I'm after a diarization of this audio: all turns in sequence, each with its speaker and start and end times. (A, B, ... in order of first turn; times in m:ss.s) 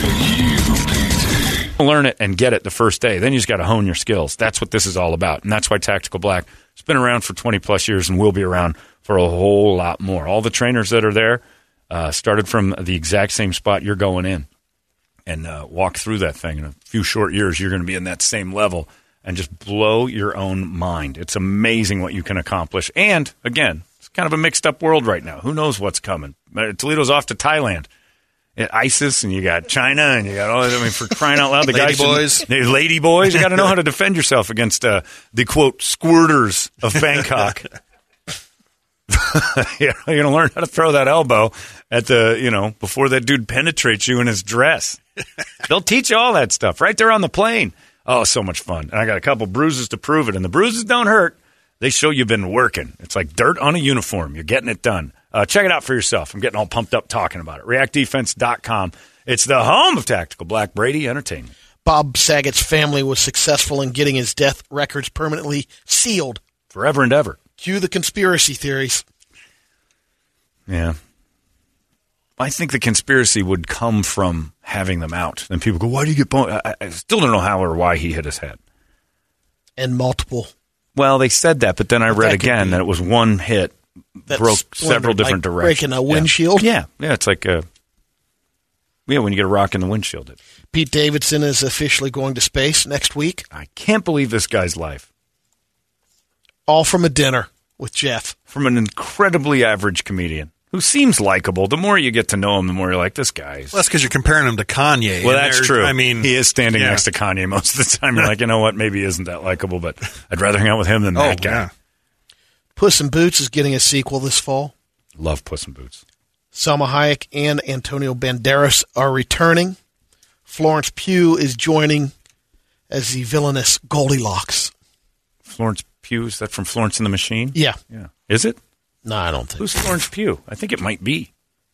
0:01.8-0:14.5 A
0:15.3-0:27.9 A
0:28.6-0:37.7 A
0:31.7-0:32.5 B
0:39.1-0:45.0 A
0:45.6-1:01.5 A
1:01.8-1:06.4 C
1:06.7-1:07.4 A
1:07.6-1:09.0 C
1:10.7-1:11.0 A
1:12.4-1:18.6 A
1:19.8-1:20.5 C
1:21.0-1:27.6 A
1:22.1-1:22.8 C
1:24.3-1:26.7 C
1:29.1-1:30.4 A
1:30.7-1:33.4 C
1:33.5-1:35.1 A
1:36.7-1:38.3 C
1:38.5-1:43.8 A
1:43.7-1:47.0 B
1:45.2-1:51.6 A
1:51.1-1:51.7 B
1:52.8-1:54.7 C
1:55.2-1:56.0 A
1:56.5-1:59.8 C
2:00.5-2:02.1 C
2:02.9-2:04.7 C
2:05.4-2:08.6 A
2:09.0-2:09.7 C
2:09.6-2:11.3 A